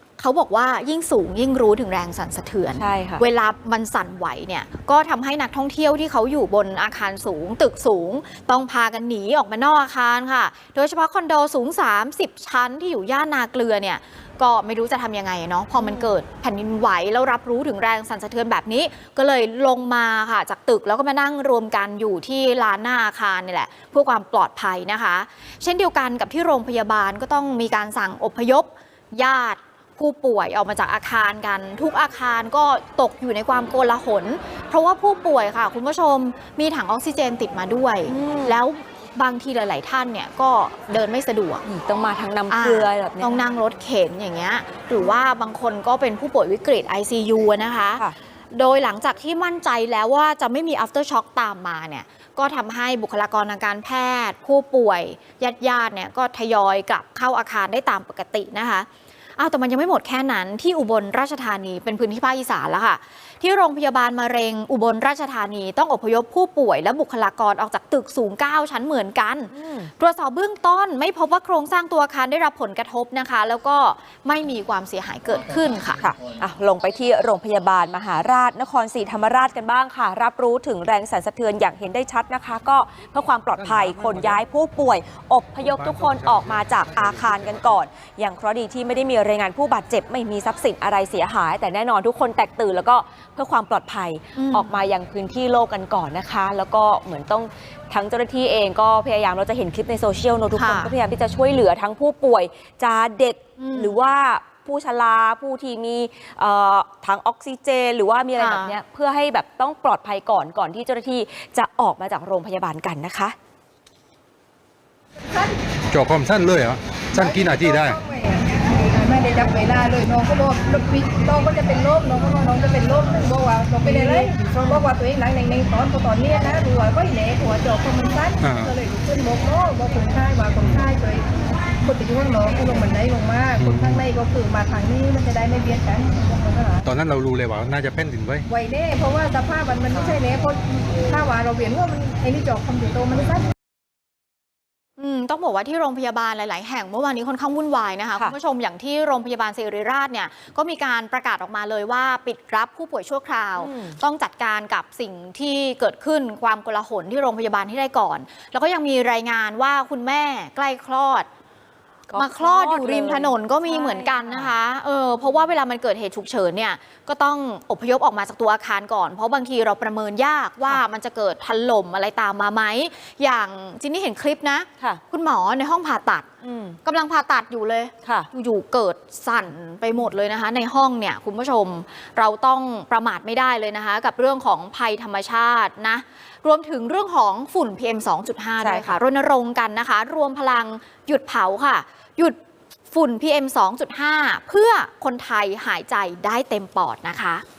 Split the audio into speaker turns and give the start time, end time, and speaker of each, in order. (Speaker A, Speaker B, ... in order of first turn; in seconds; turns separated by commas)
Speaker A: 0.2-41.6, Speaker B: 2.8-3.2, Speaker B: 15.8-16.1, Speaker B: 38.1-38.6, Speaker B: 41.6-43.4, Speaker A: 42.5-58.9, Speaker A: 59.4-76.1, Speaker B: 69.5-69.9, Speaker B: 76.0-113.3, Speaker C: 83.5-84.4, Speaker C: 85.6-87.8, Speaker A: 94.4-94.8, Speaker A: 100.5-100.9, Speaker A: 103.6-104.0, Speaker A: 108.4-108.8, Speaker C: 115.9-118.0, Speaker D: 117.1-131.3, Speaker C: 128.4-128.8, Speaker C: 130.6-130.9, Speaker D: 131.8-136.9, Speaker C: 133.6-134.0, Speaker C: 136.8-138.5, Speaker D: 138.5-143.5, Speaker A: 145.0-161.3, Speaker B: 153.6-154.0, Speaker B: 162.1-164.5, Speaker A: 162.2-176.3, Speaker B: 176.4-176.8, Speaker A: 176.8-192.4, Speaker B: 178.0-178.3, Speaker B: 188.6-189.0, Speaker A: 192.9-197.4